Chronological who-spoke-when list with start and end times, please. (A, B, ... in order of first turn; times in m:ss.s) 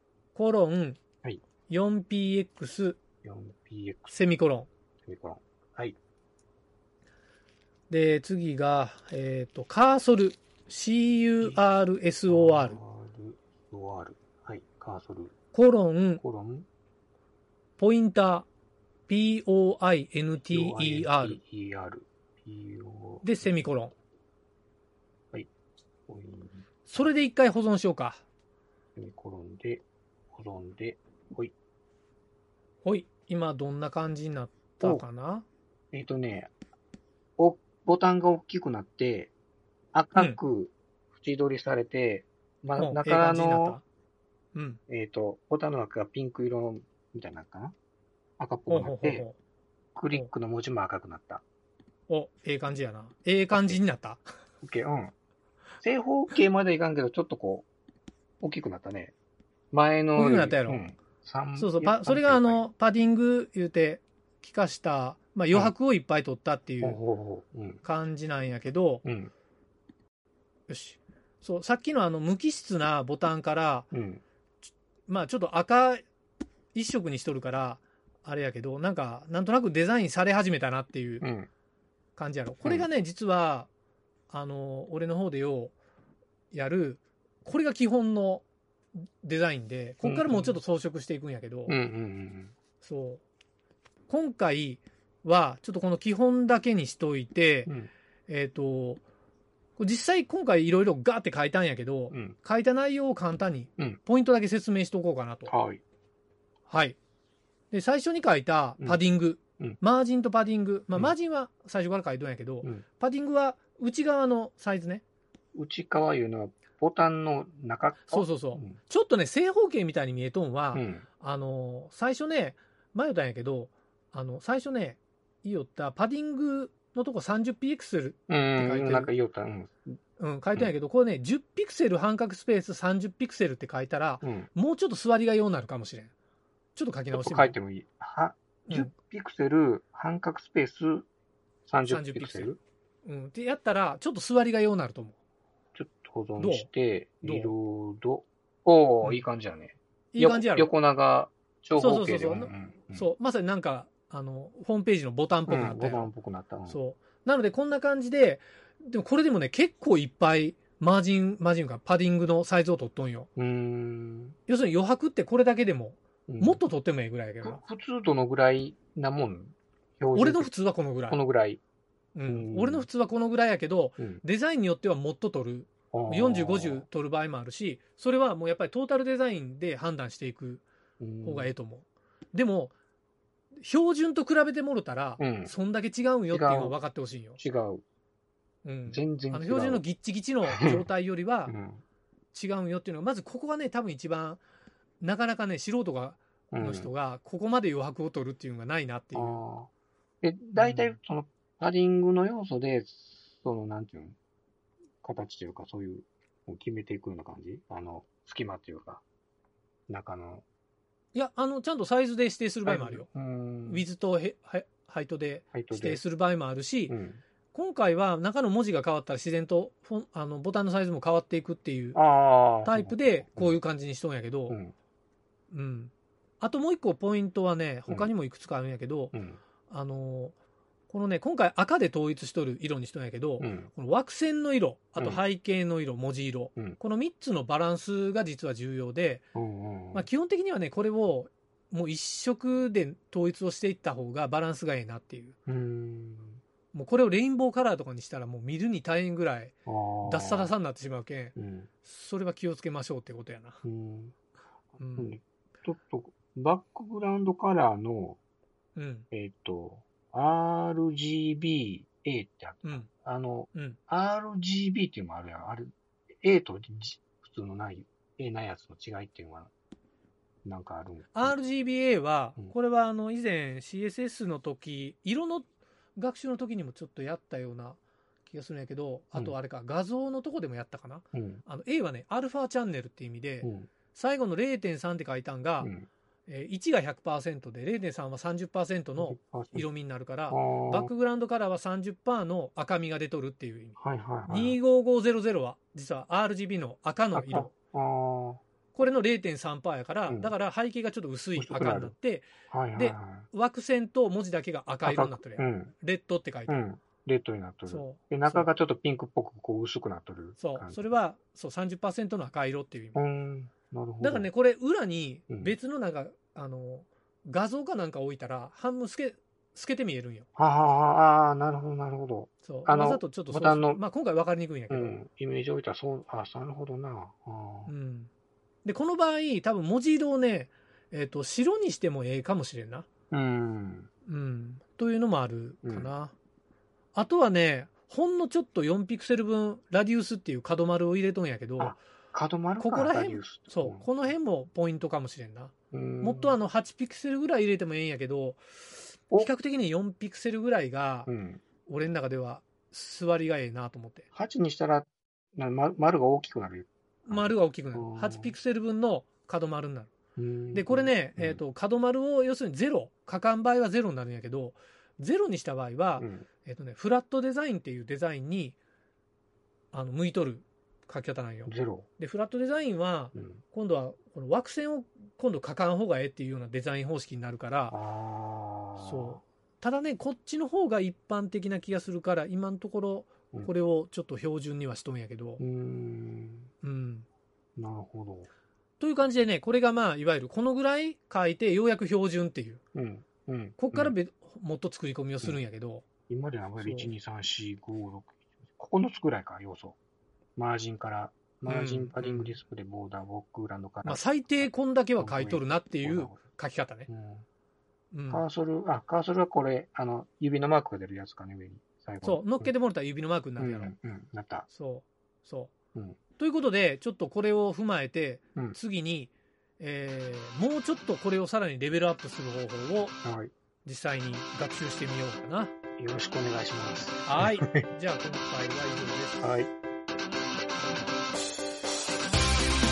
0:00.3-0:01.0 A
0:01.7-0:03.0 A
0:03.2-0:04.2 B
0:04.1-0:04.7 A
0:05.0-0:06.0 B
0:07.9-0:12.8 A
0:12.3-0:15.3 B
0:15.5-0:16.2 A
0:16.2-0:16.7 B
0:17.8-0:18.4 A
0:19.1-0:21.4 A
0:20.5-0:23.7 B
0:23.2-0:23.9 A
0:26.1-0:26.6 B
0:26.8-0:28.2 A
0:29.0-0:31.5 B
0:32.8-0:35.4 A
0:35.9-0:36.5 B
0:37.4-0:39.3 B
0:39.9-0:43.8 B
0:42.8-0:43.8 A
0:44.5-0:44.8 A
0:44.9-0:47.7 B
0:48.4-0:49.3 B
0:48.7-0:49.4 A
0:49.9-0:51.4 B
0:52.1-0:54.2 A
0:53.5-0:53.8 B
0:54.6-0:55.1 B
0:55.8-0:57.7 B
0:58.4-0:59.1 B
0:59.7-1:02.6 B
1:00.2-1:00.8 A
1:01.6-1:07.0 A
1:06.8-1:07.8 B
1:07.8-1:09.0 A
1:09.0-1:09.3 B
1:10.7-1:13.9 A
1:13.9-1:14.2 B
1:15.1-1:16.0 A
1:16.7-1:21.3 A
1:21.2-1:21.5 B
1:22.2-1:23.7 A
1:24.3-1:25.7 A
1:26.5-1:28.4 A
1:29.2-1:31.8 A
1:30.0-1:30.6 B
1:31.7-1:32.5 B
1:32.8-1:33.2 A
1:34.1-1:37.7 A
1:37.6-1:37.9 B
1:38.3-1:39.0 A
1:39.8-1:45.5 A
1:42.1-1:42.4 B
1:45.5-1:45.8 B
1:46.7-1:47.0 A
1:47.7-1:55.0 A
1:55.5-1:58.8 B
1:58.1-2:09.1 A
2:00.7-2:01.0 B
2:08.3-2:10.0 B
2:10.2-2:16.1 A
2:14.2-2:14.5 B
2:16.7-2:17.6 A
2:17.1-2:21.1 B
2:21.6-2:22.6 B
2:21.8-2:22.5 A
2:23.0-2:25.2 A
2:25.7-2:33.1 B
2:26.4-2:26.7 A
2:27.2-2:27.5 A
2:30.1-2:30.7 A
2:31.8-2:36.1 A
2:35.5-2:36.8 B
2:36.7-2:43.3 A
2:43.4-2:44.4 B
2:44.5-2:47.6 A
2:46.3-2:46.6 B
2:47.4-2:50.5 B
2:50.1-2:51.2 A
2:51.1-2:51.6 B
2:52.1-3:00.6 A
2:52.2-2:52.9 B
2:55.9-2:56.8 B
3:01.0-3:01.5 B
3:01.2-3:02.7 A
3:03.6-3:07.4 A
3:05.2-3:05.5 B
3:06.3-3:06.8 B
3:07.4-3:07.8 B
3:08.6-3:11.5 A
3:08.9-3:09.8 B
3:10.4-3:10.9 B
3:11.5-3:11.8 B
3:12.3-3:14.4 A
3:15.0-3:19.4 A
3:16.5-3:16.9 B
3:19.1-3:19.7 B
3:20.2-3:24.2 B
3:20.6-3:21.0 A
3:25.0-3:29.0 B
3:29.9-3:30.4 B
3:31.1-3:33.1 A
3:32.6-3:33.8 B
3:33.6-3:37.0 A
3:35.5-3:36.0 B
3:36.9-3:37.2 B
3:37.5-3:42.0 A
3:41.9-3:43.6 B
3:42.6-3:44.6 A
3:44.5-3:44.7 B
3:45.5-3:49.1 A
3:49.1-3:49.4 B
3:49.7-3:50.3 A
3:50.9-3:59.3 A
3:53.4-3:53.7 B
3:55.0-3:55.2 B
3:59.3-4:00.1 B
3:59.9-4:05.4 A
4:05.5-4:06.4 B
4:06.7-4:13.6 A
4:09.6-4:10.5 B
4:11.4-4:11.7 B
4:13.6-4:14.1 B
4:14.8-4:15.1 A
4:15.0-4:18.2 B
4:18.8-4:19.1 A
4:19.1-4:29.5 B
4:23.5-4:23.8 A
4:30.4-4:31.4 B
4:31.1-4:45.7 A
4:41.1-4:41.4 B
4:43.4-4:43.7 B
4:45.6-4:45.9 B
4:46.3-4:57.5 A
4:49.0-4:49.7 B
4:50.3-4:50.9 B
4:53.8-4:54.6 B
4:57.1-4:58.4 B
4:58.7-5:06.6 A
5:00.1-5:00.3 B
5:01.4-5:02.0 B
5:02.5-5:03.3 B
5:04.8-5:05.7 B
5:06.5-5:10.8 B
5:07.7-5:08.5 A
5:10.4-5:13.0 A
5:12.9-5:14.3 B
5:14.0-5:20.3 A
5:20.4-5:23.8 B
5:22.4-5:25.0 A
5:24.7-5:27.7 B
5:27.7-5:28.1 A
5:28.6-5:32.9 A
5:33.1-5:33.9 B
5:34.1-5:36.1 A
5:35.6-5:35.9 B
5:36.9-5:41.8 A
5:41.6-5:43.9 B
5:42.6-5:48.4 A
5:45.7-5:46.4 B
5:49.0-5:51.1 A
5:51.1-5:51.4 B
5:51.7-5:54.1 A
5:54.1-5:58.3 B
5:57.1-5:59.9 A
6:00.2-6:01.4 B
6:00.5-6:08.6 A
6:06.0-6:06.2 B
6:09.7-6:17.8 A
6:11.5-6:11.9 B
6:13.1-6:13.4 B
6:17.7-6:19.2 B
6:18.8-6:25.4 A
6:25.4-6:26.5 B
6:26.6-6:27.0 A
6:27.6-6:28.3 B
6:28.8-6:32.6 A
6:32.7-6:33.9 B
6:33.6-6:35.8 A
6:36.1-6:39.8 B
6:36.6-6:36.9 A
6:40.4-6:46.2 B
6:41.4-6:42.4 A
6:43.8-6:46.9 A
6:46.9-6:47.2 B
6:47.9-6:48.2 A
6:48.1-6:52.5 B
6:52.0-6:53.7 A
6:53.4-6:54.5 B
6:54.5-6:55.5 A
6:56.2-7:03.0 A
7:03.0-7:03.3 B
7:03.6-7:05.5 A
7:05.8-7:07.7 B
7:07.0-7:09.3 A
7:09.2-7:09.5 B